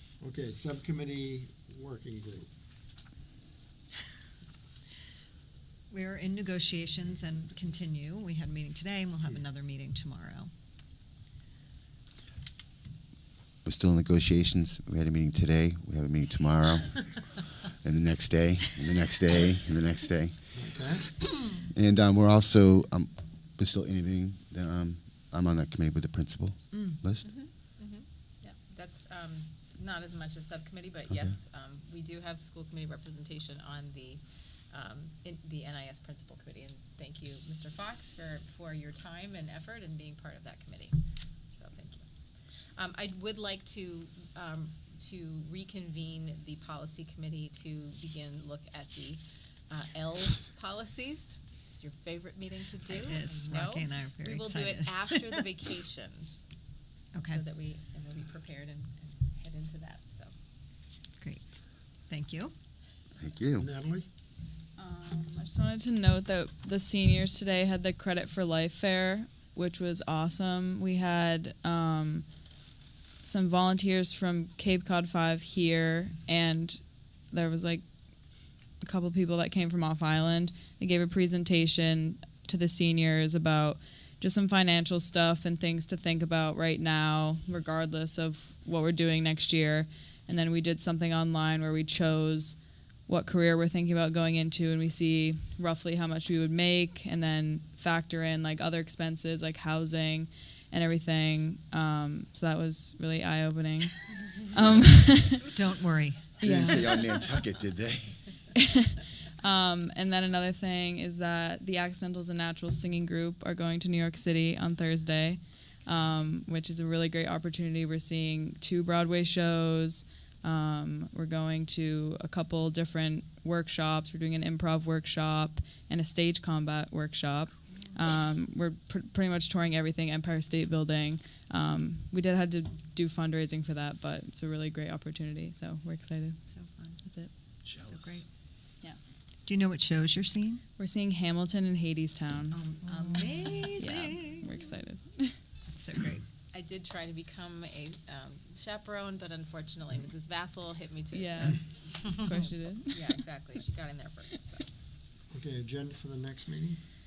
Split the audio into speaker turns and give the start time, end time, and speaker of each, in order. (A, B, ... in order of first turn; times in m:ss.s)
0:00.2-0:02.5 A
0:05.9-0:10.5 B
0:13.6-0:20.6 C
0:20.5-0:21.1 A
0:21.7-0:27.3 C
0:26.7-0:27.0 B
0:27.2-0:41.0 D
0:31.1-0:31.4 C
0:41.5-0:42.0 D
0:42.7-0:56.3 D
0:52.9-0:55.4 B
0:57.1-0:57.4 B
0:57.3-1:00.3 D
1:01.2-1:01.5 B
1:02.1-1:02.5 B
1:03.2-1:03.7 C
1:03.6-1:04.1 A
1:04.8-1:12.2 E
1:13.2-1:17.8 E
1:18.8-1:45.5 E
1:45.5-1:47.0 B
1:46.4-1:48.2 C
1:48.6-2:16.4 E
2:16.5-2:17.0 B
2:17.0-2:17.3 E
2:17.6-2:18.2 C
2:17.8-2:18.2 B
2:19.4-2:20.6 B
2:20.8-2:25.4 E
2:22.5-2:24.5 B
2:25.7-2:26.2 B
2:26.5-2:34.6 D
2:31.1-2:33.1 E
2:35.3-2:36.8 A